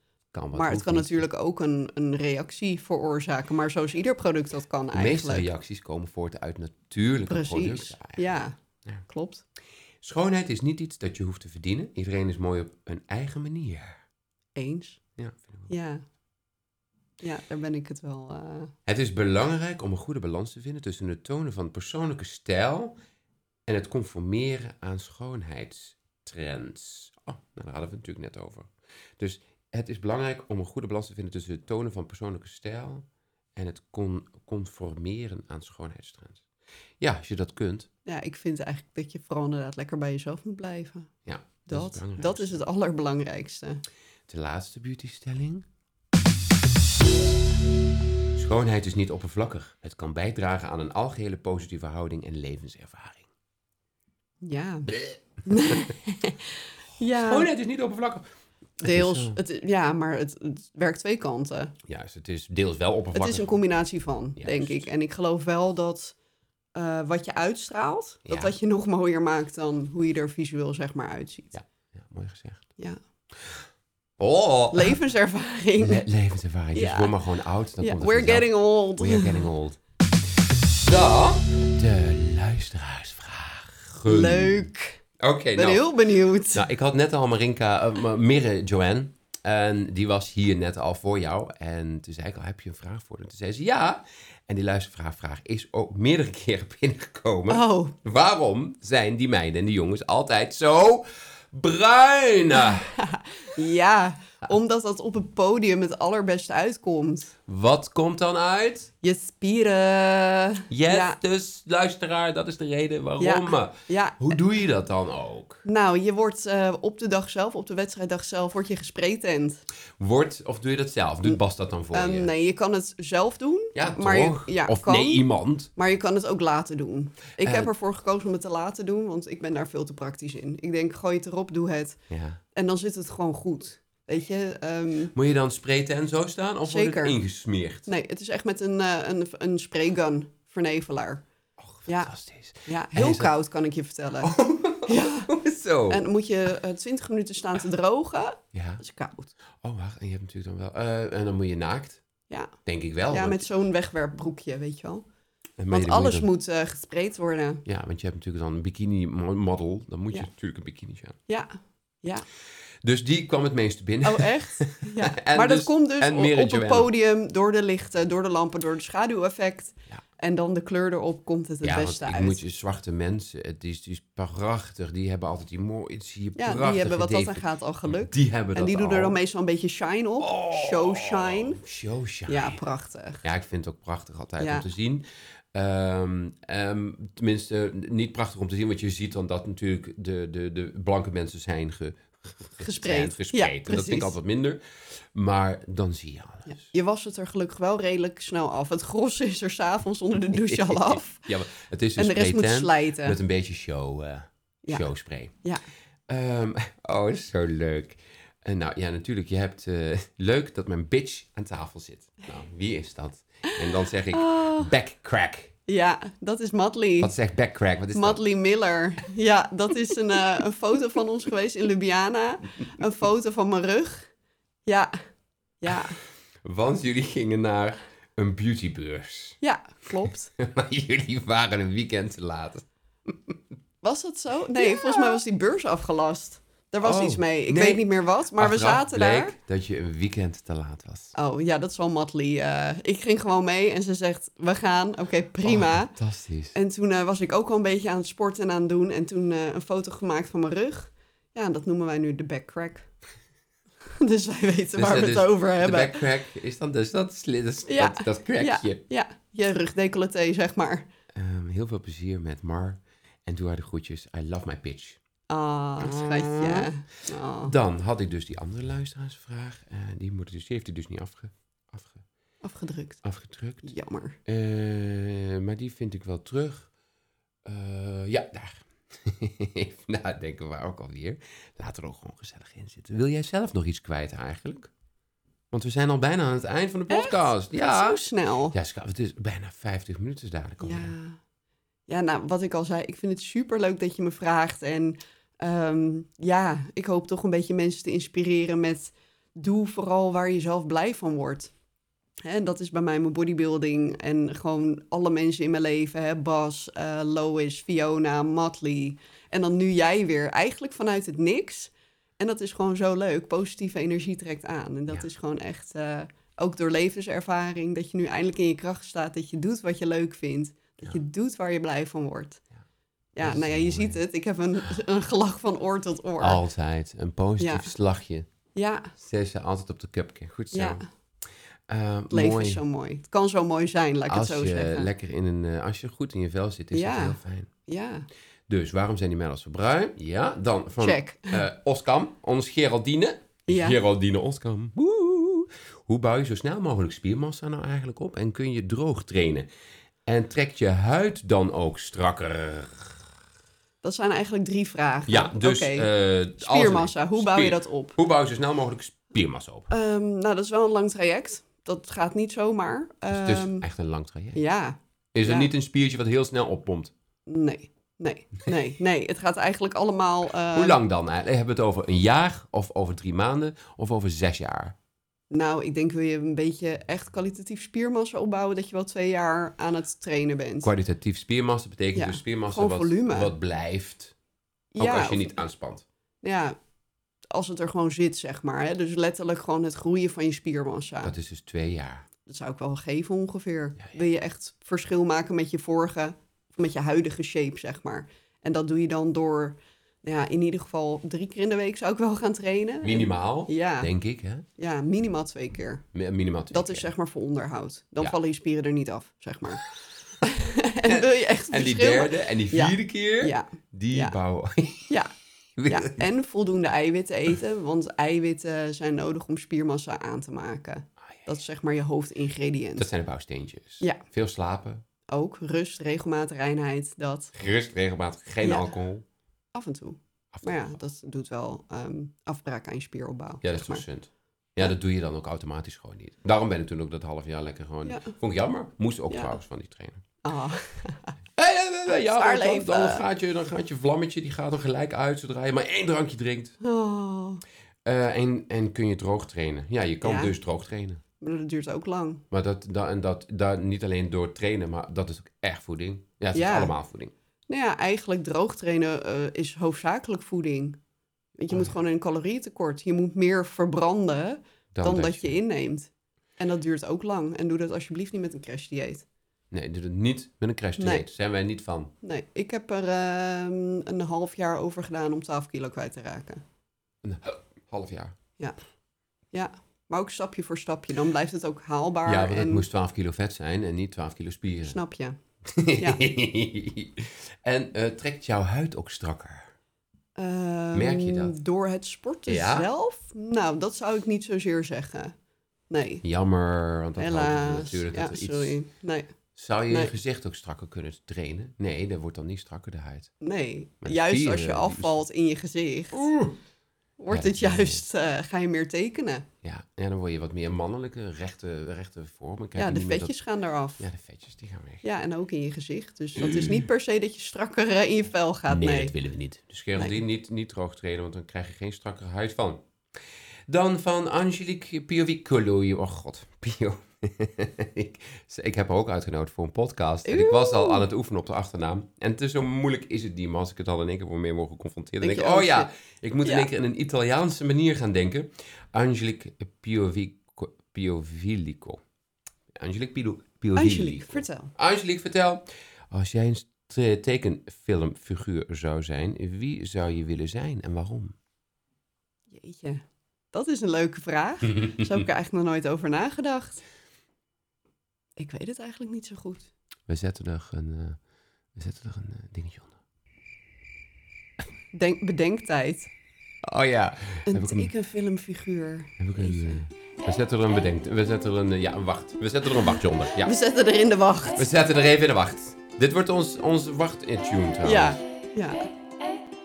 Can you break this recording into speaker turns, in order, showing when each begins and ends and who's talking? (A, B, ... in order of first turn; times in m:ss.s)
0:00.3-0:01.3 A
0:00.5-0:05.5 B
0:04.9-0:09.0 A
0:07.3-0:08.5 B
0:09.0-0:09.4 B
0:10.0-0:14.0 A
0:14.6-0:15.0 B
0:15.2-0:15.7 A
0:15.7-0:16.0 B
0:17.2-0:18.7 B
0:18.8-0:23.0 A
0:23.6-0:36.4 A
0:37.0-0:37.9 A
0:38.0-0:41.1 B
0:41.2-0:42.6 A
0:41.7-0:43.8 B
0:44.3-0:45.6 A
0:48.3-0:53.3 A
0:54.4-0:57.5 B
0:54.9-0:55.9 A
0:57.1-0:58.2 A
0:58.8-0:59.4 A
0:58.8-1:01.7 B
1:01.8-1:03.6 A
1:03.1-1:06.2 B
1:04.4-1:04.9 A
1:06.7-1:11.5 B
1:08.2-1:08.5 A
1:11.5-1:12.6 A
1:14.2-1:15.0 A
1:14.7-1:16.0 B
1:15.8-1:19.8 A
1:16.7-1:17.1 B
1:17.8-1:19.5 B
1:20.8-1:24.7 A
1:24.0-1:25.0 B
1:25.2-1:25.9 A
1:25.5-1:26.7 B
1:26.5-1:42.9 A
1:37.5-1:37.9 B
1:42.7-1:47.3 B
1:47.5-1:48.9 A
1:49.0-1:51.2 B
1:50.7-1:55.6 A
1:53.2-1:54.4 B
1:55.6-1:59.6 B
2:00.0-2:02.3 A
2:01.9-2:12.0 B
2:03.7-2:05.7 A
2:07.4-2:07.7 A
2:12.1-2:12.4 A
2:12.5-2:15.1 B
2:15.1-2:17.9 A
2:16.7-2:17.2 B
2:17.8-2:21.2 B
2:21.6-2:23.3 A
2:21.8-2:22.1 B
2:22.6-2:25.3 B
2:24.2-2:26.0 A
2:25.9-2:29.3 B
2:28.5-2:28.8 A
2:29.6-2:32.0 A
2:32.3-2:32.5 B
2:32.6-2:33.4 A
2:33.1-2:35.0 B
2:35.6-2:36.3 A
2:35.7-2:37.6 B
2:37.6-2:41.2 A
2:41.3-2:42.2 B
2:42.8-2:46.9 A
2:44.0-2:52.4 B
2:51.6-2:59.2 A
2:56.4-3:01.6 B
3:00.2-3:02.6 A
3:02.3-3:03.2 B
3:03.2-3:16.7 A
3:04.4-3:04.7 B
3:12.6-3:14.1 B
3:16.5-3:21.3 B
3:20.3-3:25.3 A
3:22.0-3:23.2 B
3:26.1-3:35.5 A
3:34.1-3:34.7 B
3:35.7-3:37.1 B
3:37.0-3:38.2 A
3:37.9-3:44.1 B
3:44.6-3:44.9 B
3:45.6-3:46.0 B
3:46.4-3:49.4 A
3:49.4-3:50.3 B
3:50.4-3:53.4 A
3:53.8-3:59.3 B
3:54.6-3:55.2 A
3:56.8-4:01.1 A
4:01.1-4:06.0 B
4:05.4-4:06.6 A
4:06.5-4:12.9 B
4:14.0-4:16.0 B
4:14.8-4:18.8 A
4:17.7-4:20.9 B
4:21.1-4:25.0 A
4:25.3-4:27.5 B
4:25.8-4:26.7 A
4:27.4-4:32.0 A
4:32.4-4:33.0 B
4:33.0-4:33.7 A
4:33.6-4:34.2 B
4:34.2-4:36.7 A
4:37.4-4:44.7 A
4:45.5-4:50.9 A
4:46.9-4:48.6 B
4:50.6-4:51.2 B
4:51.9-5:01.5 B
5:02.2-5:22.4 B
5:23.1-5:26.4 B
5:23.2-5:24.0 A
5:26.2-5:28.3 A
5:27.4-5:27.7 B
5:28.5-5:28.9 B
5:29.0-5:30.8 A
5:30.5-5:30.8 B
5:31.7-5:32.6 A
5:32.1-5:34.9 B
5:34.1-5:37.5 A
5:36.7-5:38.1 B
5:38.5-5:49.5 A
5:40.8-5:41.4 B
5:43.5-5:43.8 B
5:50.0-5:53.0 A
5:53.8-5:58.0 B
5:55.1-5:59.7 A
5:59.7-6:03.6 B
6:03.1-6:04.4 A
6:04.3-6:05.5 B
6:05.1-6:06.9 A
6:07.3-6:10.8 B
6:10.5-6:14.8 A
6:15.3-6:20.7 B
6:20.6-6:24.1 A
6:21.9-6:23.3 B
6:24.7-6:25.3 B
6:24.8-6:25.8 A
6:26.2-6:26.6 B
6:27.3-6:31.1 B
6:31.0-6:32.0 A
6:32.2-6:43.9 B
6:42.8-6:44.4 A
6:44.6-6:45.8 B
6:45.9-6:46.9 A
6:46.5-6:49.7 B
6:50.2-6:54.2 B
6:50.8-6:55.0 A
6:55.6-6:56.0 A
6:55.6-7:02.9 B
7:02.8-7:04.8 A
7:05.1-7:07.3 B
7:07.3-7:09.0 A
7:08.4-7:08.7 B
7:09.5-7:13.8 B
7:10.3-7:10.7 A
7:13.4-7:20.0 A
7:17.8-7:18.1 B
7:19.1-7:19.4 B
7:20.2-7:21.1 B
7:21.4-7:26.6 A
7:21.9-7:23.0 B
7:26.6-7:27.4 B
7:27.8-7:31.0 A
7:30.0-7:30.3 B
7:31.2-7:32.2 B
7:32.3-7:37.1 A
7:36.3-7:36.7 B
7:37.5-7:40.8 B
7:41.4-7:49.0 B
7:44.7-7:45.4 A
7:49.5-7:51.9 A
7:50.8-7:51.0 B
7:52.0-7:56.4 B
7:57.0-7:58.2 A
7:59.3-8:02.6 B
8:02.0-8:04.8 A
8:04.6-8:05.2 B
8:05.4-8:09.5 A
8:05.8-8:06.0 B
8:10.2-8:15.1 B
8:10.7-8:11.4 A
8:12.3-8:12.7 A
8:15.7-8:16.0 B
8:16.0-8:18.6 A
8:17.0-8:19.1 B
8:19.3-8:23.1 A
8:19.7-8:19.9 B
8:23.2-8:26.1 B
8:23.8-8:25.0 A
8:25.9-8:26.4 A
8:27.0-8:29.2 B
8:27.1-8:27.8 A
8:29.4-8:33.1 A
8:32.6-8:33.9 B
8:33.8-8:34.8 A
8:34.8-8:38.9 B
8:36.2-8:36.7 A
8:38.5-8:42.6 A
8:43.5-9:01.8 A
8:50.0-8:50.8 B
8:55.0-8:55.7 B
8:56.2-8:56.5 B
9:02.5-9:11.2 A
9:03.6-9:04.5 B
9:12.3-9:16.6 B
9:18.2-9:19.5 B
9:19.9-9:21.0 A
9:21.5-9:22.8 A
9:24.7-9:25.9 B
9:26.4-9:27.7 A
9:27.3-9:29.6 B
9:29.0-9:33.3 A
9:33.2-9:34.5 B
9:34.4-9:38.0 A
9:37.6-9:38.7 B